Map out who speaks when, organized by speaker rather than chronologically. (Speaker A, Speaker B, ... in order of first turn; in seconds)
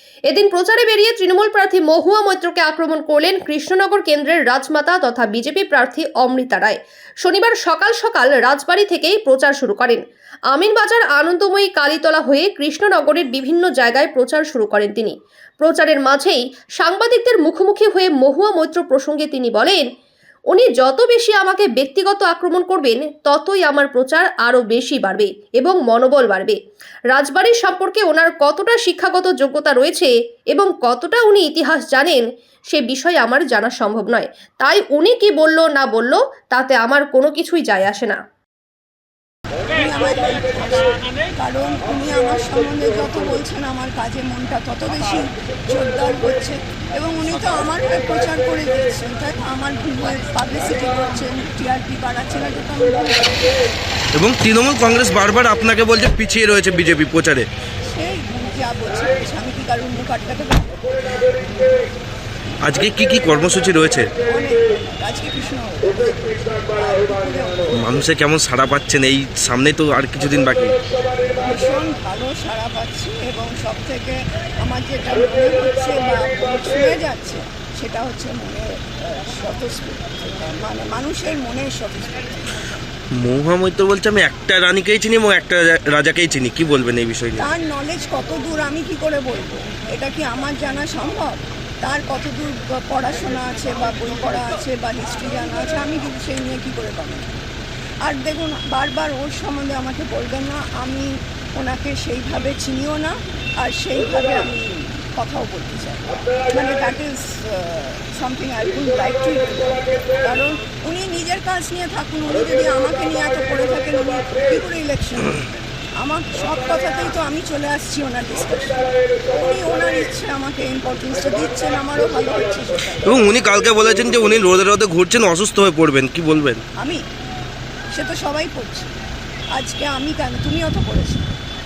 Speaker A: 0.3-19.9, 20.5-26.6, 27.1-38.2
Speaker B: 39.7-53.6, 57.9-61.0, 64.2-67.8, 71.4-82.4, 87.4-97.4, 98.0-123.2, 127.9-128.9, 129.5-131.3
Speaker C: 54.2-57.5, 62.6-64.1, 67.8-70.8, 83.2-87.5, 123.1-126.6